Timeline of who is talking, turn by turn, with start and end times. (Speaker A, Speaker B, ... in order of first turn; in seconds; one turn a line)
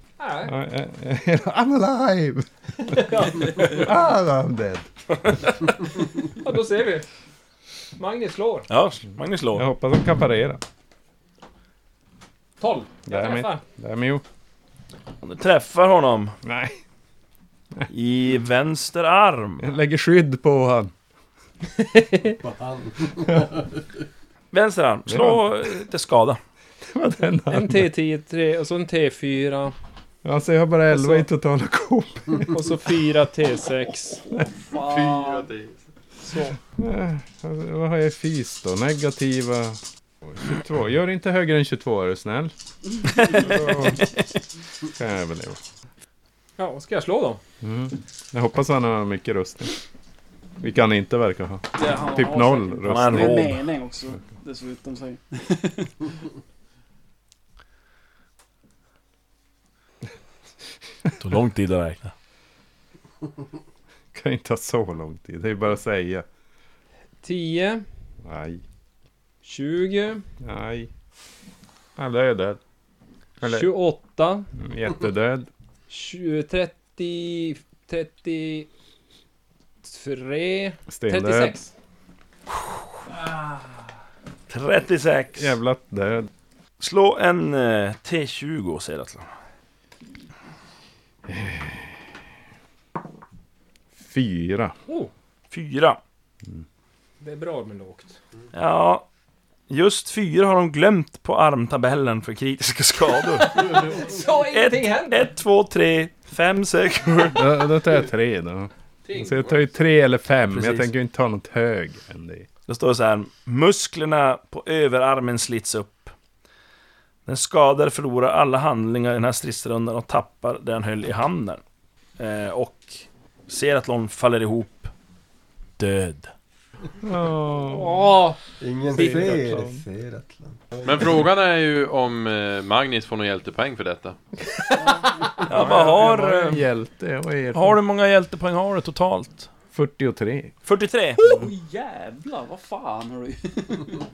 Speaker A: 0.2-0.6
Speaker B: 0.4-2.5
Speaker A: 2.8-3.9
Speaker B: 3.6-4.9
Speaker A: 5.8-7.1
Speaker A: 8.0-8.7
Speaker C: 8.7-9.6
Speaker B: 9.5-10.6
Speaker A: 12.6-13.6
Speaker B: 13.1-14.2
Speaker C: 15.2-16.4
Speaker B: 16.4-16.8
Speaker C: 17.9-19.7
Speaker B: 19.6-20.9
Speaker A: 21.8-22.4
Speaker D: 22.4-23.8
Speaker C: 24.5-26.4
Speaker B: 25.1-25.6
Speaker B: 26.9-27.9
Speaker A: 27.5-29.8
Speaker B: 30.2-32.7
Speaker A: 30.9-31.3
Speaker A: 32.5-34.2
Speaker E: 34.3-35.5
Speaker F: 34.7-35.8
Speaker A: 36.2-36.6
Speaker B: 36.8-42.5
Speaker B: 43.0-44.1
Speaker E: 43.1-44.0
Speaker B: 44.9-45.6
Speaker A: 46.6-47.4
Speaker B: 47.6-49.8
Speaker B: 50.6-53.6
Speaker E: 51.8-55.9
Speaker C: 52.9-53.5
Speaker C: 61.2-62.1
Speaker B: 64.1-66.2
Speaker A: 67.2-67.8
Speaker B: 68.2-68.6
Speaker A: 69.4-70.2
Speaker B: 70.4-70.9
Speaker B: 72.0-72.6
Speaker A: 73.4-74.5
Speaker B: 73.4-73.7
Speaker B: 74.6-75.5
Speaker A: 75.9-78.7
Speaker A: 79.8-81.7
Speaker B: 80.9-81.6
Speaker C: 84.5-85.6
Speaker B: 85.4-86.3
Speaker C: 86.8-89.3
Speaker B: 91.3-92.0
Speaker B: 93.9-94.8
Speaker A: 94.9-95.1
Speaker C: 95.5-96.0
Speaker A: 97.2-98.2
Speaker C: 98.5-99.1
Speaker C: 99.7-103.8
Speaker A: 103.4-105.3
Speaker C: 104.5-107.4
Speaker B: 107.3-112.5
Speaker F: 109.1-109.6
Speaker C: 112.7-116.1
Speaker C: 117.2-121.6
Speaker C: 122.2-124.9
Speaker C: 125.8-126.3
Speaker B: 127.0-128.1
Speaker A: 127.7-128.4
Speaker D: 128.6-131.0
Speaker A: 128.9-129.4
Speaker B: 128.9-129.8
Speaker F: 130.8-134.2
Speaker A: 134.6-135.2
Speaker E: 134.7-135.4
Speaker C: 135.4-136.6
Speaker B: 135.5-137.8
Speaker C: 137.5-139.5
Speaker B: 139.7-140.5
Speaker C: 140.6-141.2
Speaker E: 141.2-143.9